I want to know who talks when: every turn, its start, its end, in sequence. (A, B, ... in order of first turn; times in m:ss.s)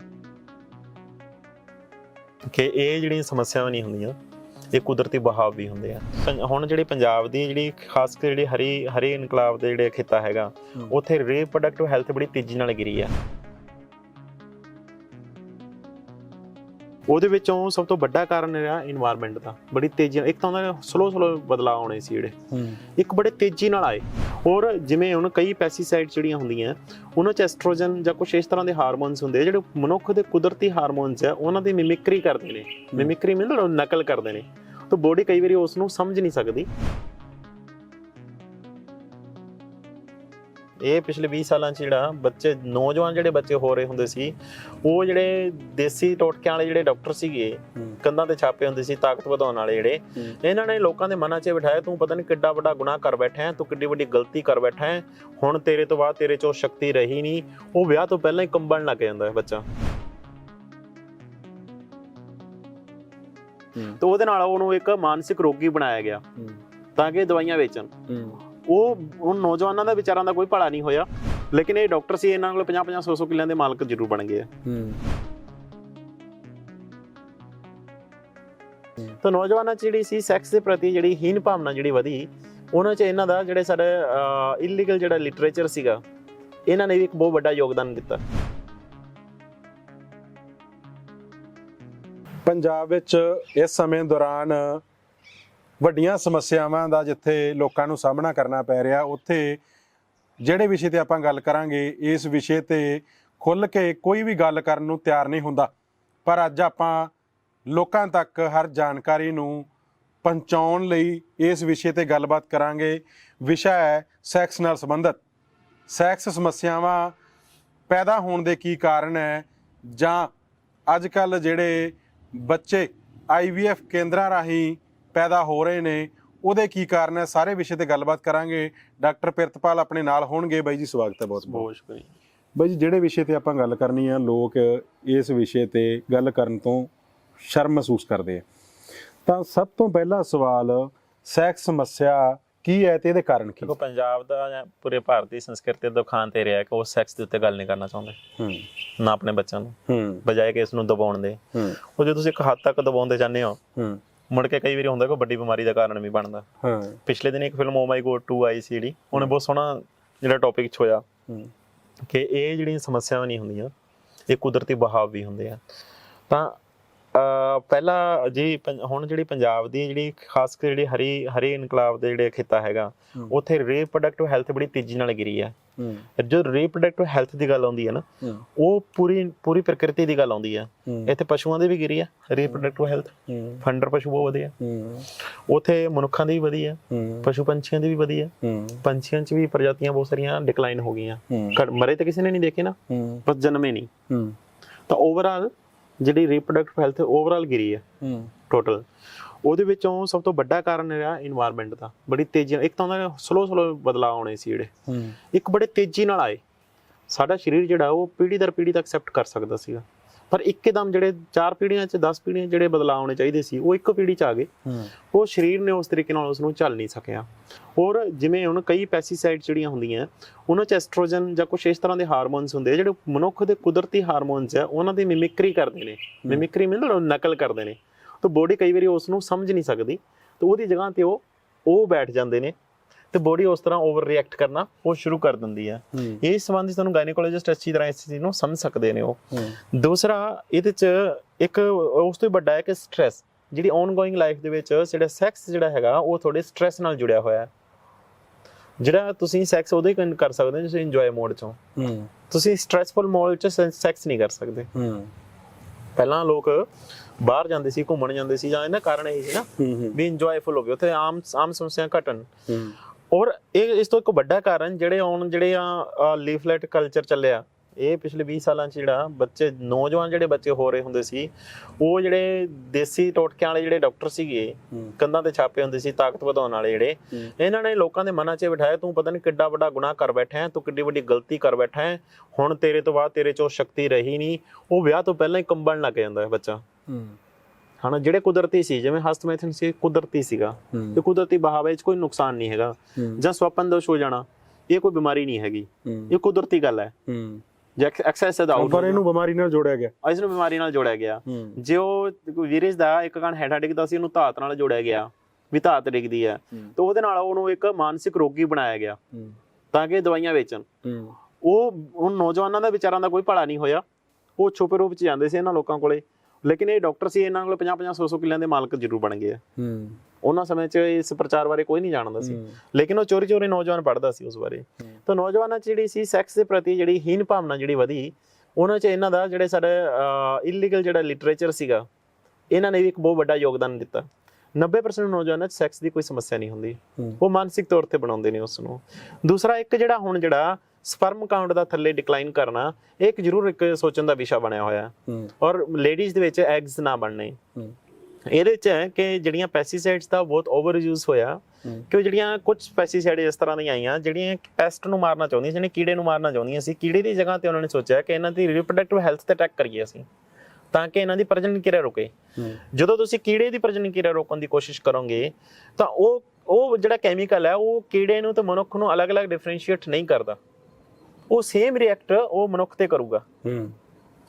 0:02.5-0:04.2 A
0:04.7-0:13.1 A
0:17.1-0:36.7 A
0:22.5-0:22.8 B
0:40.8-0:59.7 A
1:03.9-1:06.2 A
1:07.0-1:07.9 A
1:08.1-1:08.4 B
1:08.6-1:14.5 A
1:14.6-1:15.0 B
1:19.2-1:26.0 A
1:26.7-1:28.2 A
1:32.4-1:34.8 B
1:35.8-1:39.6 B
1:40.4-1:45.7 B
1:46.2-1:47.1 B
1:47.7-1:49.7 B
1:50.2-1:55.2 B
1:55.9-1:57.1 B
1:57.9-2:00.3 B
2:00.9-2:11.7 B
2:11.5-2:12.1 A
2:12.6-2:18.4 B
2:19.2-2:23.7 B
2:23.6-2:28.2 A
2:28.4-2:28.7 B
2:29.0-2:33.6 A
2:29.9-2:30.2 B
2:34.3-2:36.4 A
2:36.6-2:37.0 B
2:37.0-2:41.0 A
2:42.1-2:43.7 A
2:44.3-2:45.6 A
2:46.3-2:46.6 A
2:47.1-2:55.5 A
2:55.8-2:56.0 B
2:56.2-2:58.0 A
2:58.6-3:04.5 A
3:00.9-3:01.1 B
3:03.3-3:03.6 B
3:04.6-3:05.1 B
3:05.5-3:13.9 A
3:06.9-3:07.3 B
3:08.4-3:08.8 B
3:11.3-3:11.6 B
3:12.9-3:13.2 B
3:14.1-3:14.3 B
3:14.9-3:17.8 A
3:18.0-3:18.3 B
3:18.5-3:18.8 A
3:19.4-3:24.7 A
3:24.9-3:25.2 B
3:25.3-3:26.4 A
3:27.1-3:34.5 A
3:34.6-3:34.9 B
3:35.1-3:52.5 A
3:53.1-4:07.5 A
3:55.9-3:56.2 B
3:59.3-3:59.6 B
4:08.8-4:11.6 A
4:11.8-4:12.1 B
4:12.3-4:14.7 A
4:14.7-4:15.1 B
4:16.0-4:16.7 A
4:17.2-4:22.3 A
4:19.6-4:20.0 B
4:22.5-4:22.8 B
4:23.1-4:46.6 A
4:46.9-4:47.2 B
4:47.8-4:56.9 A
4:50.7-4:51.0 B
4:53.0-4:53.2 B
4:55.8-4:56.1 B
4:57.1-4:57.4 B
4:57.8-4:59.0 A
4:58.5-4:59.9 B
5:00.0-5:09.0 A
5:01.3-5:01.6 B
5:09.7-5:10.6 A
5:10.8-5:11.2 B
5:11.4-5:13.8 A
5:14.4-5:19.4 A
5:19.6-5:20.0 B
5:20.2-5:31.9 A
5:22.2-5:22.5 B
5:32.5-5:47.4 A
5:48.3-6:00.0 A
6:00.7-6:10.4 A
6:11.3-6:13.2 A
6:13.4-6:13.7 B